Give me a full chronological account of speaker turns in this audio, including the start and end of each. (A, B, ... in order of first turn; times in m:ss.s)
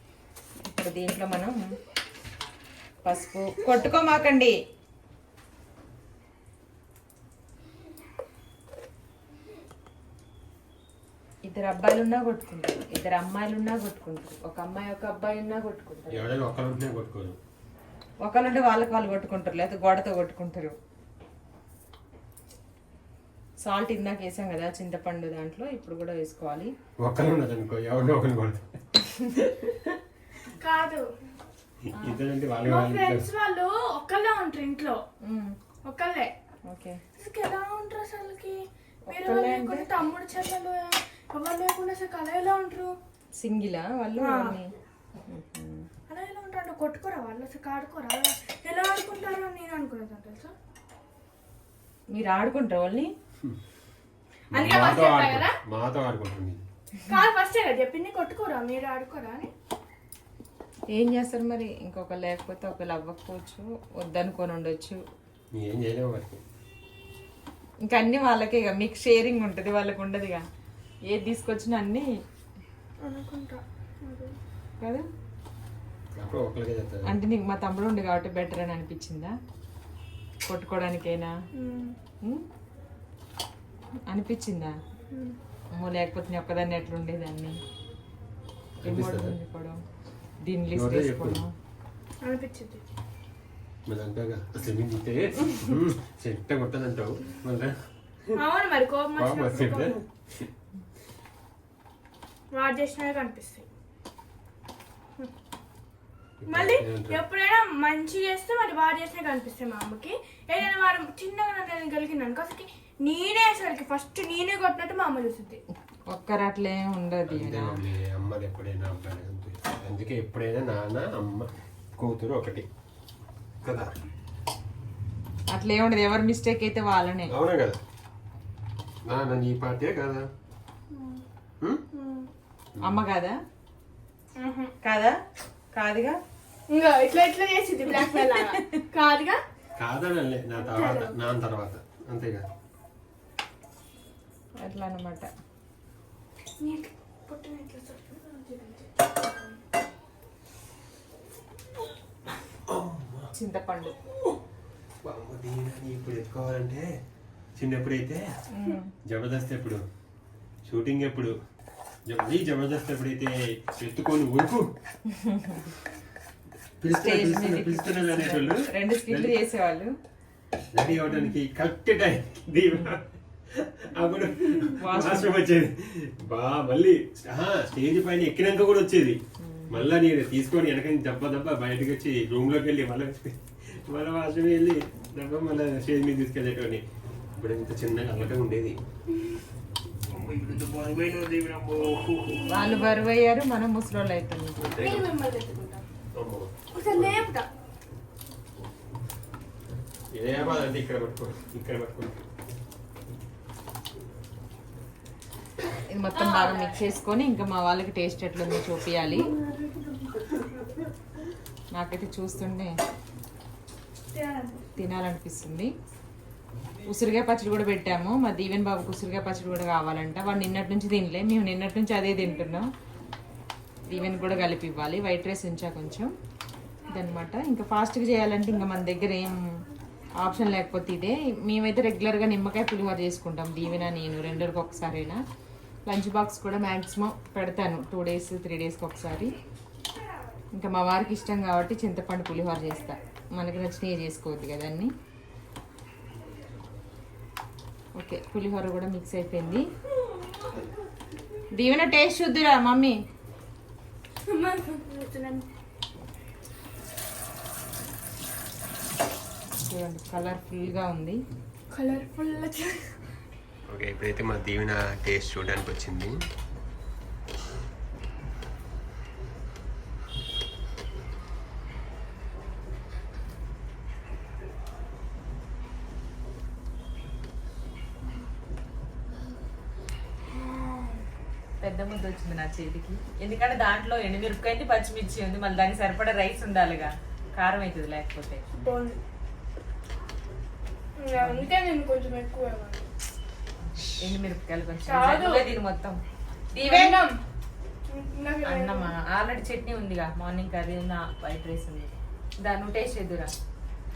0:00.6-0:01.6 A
0:03.0-0:04.5 A
0:11.4-0:16.4 A
0:16.1-0:17.4 B
0:18.2-0:20.7 A
0:23.6-0:26.7 A
0:27.0-0:28.8 B
0:29.4-0:29.9 B
0:30.6-0:31.1 C
0:31.9-0:33.2 B
0:32.6-0:35.0 C
0:35.2-0:35.6 A
0:35.8-0:36.3 C
0:36.7-0:37.0 A
0:37.2-0:42.9 C
0:39.1-0:39.9 A
0:43.4-0:44.7 A
0:44.2-0:44.6 C
0:45.3-0:45.9 A
0:46.1-0:50.5 C
0:52.1-0:53.1 A
0:54.5-0:55.6 C
0:54.5-0:56.6 B
0:57.0-0:59.5 C
1:00.9-1:05.0 A
1:05.5-1:06.4 B
1:07.8-1:10.4 A
1:11.1-1:12.0 A
1:13.0-1:14.3 C
1:16.1-1:17.1 B
1:17.1-1:19.3 A
1:20.4-1:21.3 A
1:21.5-1:22.0 C
1:24.1-1:24.7 A
1:25.1-1:25.4 C
1:25.7-1:27.6 A
1:28.8-1:29.4 B
1:28.8-1:29.8 A
1:30.4-1:31.5 A
1:30.7-1:31.4 B
1:32.2-1:32.8 C
1:33.9-1:38.3 B
1:38.3-1:39.9 C
1:39.1-1:40.5 B
1:42.5-1:43.7 C
1:46.4-1:47.2 B
1:46.5-1:55.6 C
1:56.1-1:57.8 A
1:57.3-2:02.7 B
2:03.6-2:03.9 B
2:05.5-2:07.3 A
2:07.3-2:07.8 B
2:09.0-2:10.2 B
2:10.9-2:11.2 C
2:11.9-2:12.3 C
2:12.8-2:13.3 A
2:14.4-2:14.7 C
2:14.8-2:15.2 A
2:15.7-2:16.2 A
2:16.7-2:19.4 C
2:19.8-2:22.4 B
2:20.6-2:21.2 C
2:24.6-2:25.3 A
2:26.6-2:29.6 C
2:32.7-2:33.3 B
2:33.3-2:34.0 A
2:35.0-2:36.9 B
2:37.6-2:38.2 B
2:38.5-2:38.9 A
2:39.0-2:39.8 B
2:40.6-2:41.3 B
2:42.1-2:44.7 B
2:45.1-2:45.6 A
2:46.8-2:49.4 B
2:46.8-2:49.9 A
2:50.7-2:59.2 B
2:54.8-2:55.4 A
2:59.4-2:59.8 A
2:59.7-3:06.8 B
3:07.4-3:08.8 B
3:10.2-3:12.4 B
3:12.5-3:14.8 A
3:14.7-3:15.1 B
3:14.7-3:15.8 C
3:16.1-3:17.3 B
3:16.7-3:17.5 C
3:20.1-3:22.2 B
3:25.9-3:29.3 A
3:26.1-3:26.9 C
3:29.2-3:30.7 C
3:31.8-3:32.7 A
3:34.1-3:34.6 C
3:34.8-3:35.7 A
3:36.9-3:42.6 A
3:43.9-3:46.1 A
3:46.9-3:49.4 A
3:50.2-3:55.2 A
3:55.9-3:59.3 A
4:00.5-4:04.9 A
4:08.0-4:09.6 A
4:10.0-4:10.7 C
4:11.5-4:12.9 A
4:14.3-4:15.4 C
4:19.6-4:21.2 A
4:21.7-4:23.0 C
4:23.7-4:26.1 B
4:40.3-4:41.0 C
4:41.6-4:48.4 A
4:48.6-4:49.0 C
4:51.0-4:52.9 C
4:51.2-4:51.5 A
4:53.8-4:56.0 A
4:54.8-4:55.4 C
4:56.5-4:57.0 A
4:56.6-4:57.2 C
4:57.9-4:58.9 C
4:58.4-5:03.3 A